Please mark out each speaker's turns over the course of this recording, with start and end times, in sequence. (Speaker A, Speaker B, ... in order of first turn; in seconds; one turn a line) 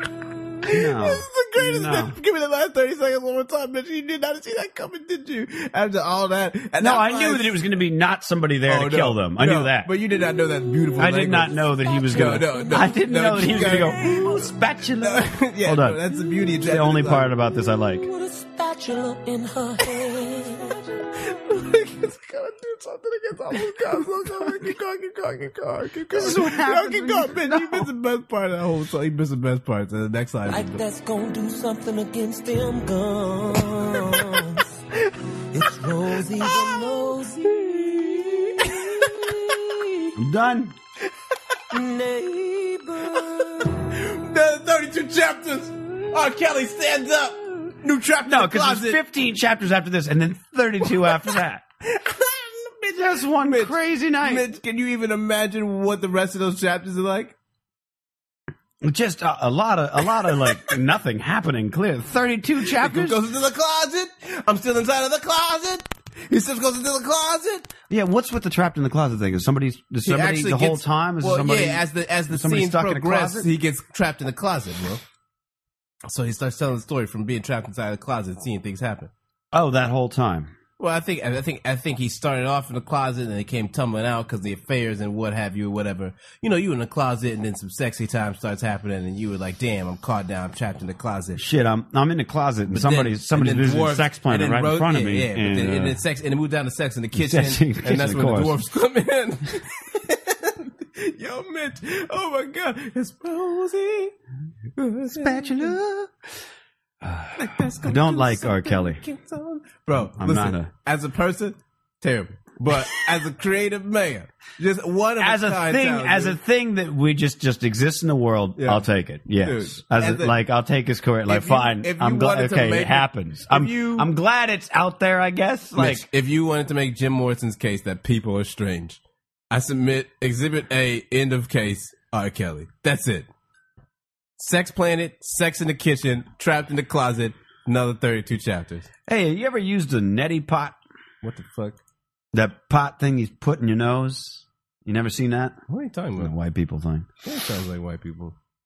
Speaker A: 0.6-7.6
Speaker B: 0.7-2.1
Speaker B: 6.8-9.9
Speaker A: 8.7-14.4
Speaker B: 11.0-16.0
Speaker C: 11.7-14.5
Speaker A: 15.0-17.3
Speaker B: 16.6-18.1
Speaker C: 17.9-20.8
Speaker A: 21.2-30.8
Speaker B: 26.1-27.9
Speaker C: 30.5-34.8
Speaker C: 35.5-40.1
Speaker A: 37.5-38.9
Speaker B: 40.1-40.8
Speaker C: 41.7-43.7
Speaker A: 43.8-49.0
Speaker B: 48.2-51.6
Speaker A: 51.9-57.3
Speaker B: 52.9-54.5
Speaker B: 58.8-63.2
Speaker A: 62.7-67.7
Speaker B: 67.9-73.5
Speaker A: 70.0-75.0
Speaker A: 76.1-79.1
Speaker B: 79.5-80.5
Speaker A: 80.8-91.4
Speaker B: 91.3-96.0
Speaker A: 92.7-104.1
Speaker B: 97.2-98.6
Speaker A: 104.8-105.7
Speaker B: 105.1-106.1
Speaker B: 107.0-109.0
Speaker A: 107.3-116.4
Speaker B: 110.1-110.7
Speaker B: 115.2-126.1
Speaker A: 118.6-118.8
Speaker A: 119.4-120.3
Speaker A: 121.3-124.1
Speaker A: 125.8-129.0
Speaker A: 129.5-133.3
Speaker A: 134.4-138.9
Speaker B: 139.1-140.8
Speaker A: 141.2-141.8
Speaker B: 142.3-145.6
Speaker A: 145.7-146.3
Speaker B: 146.2-147.1
Speaker A: 147.2-148.3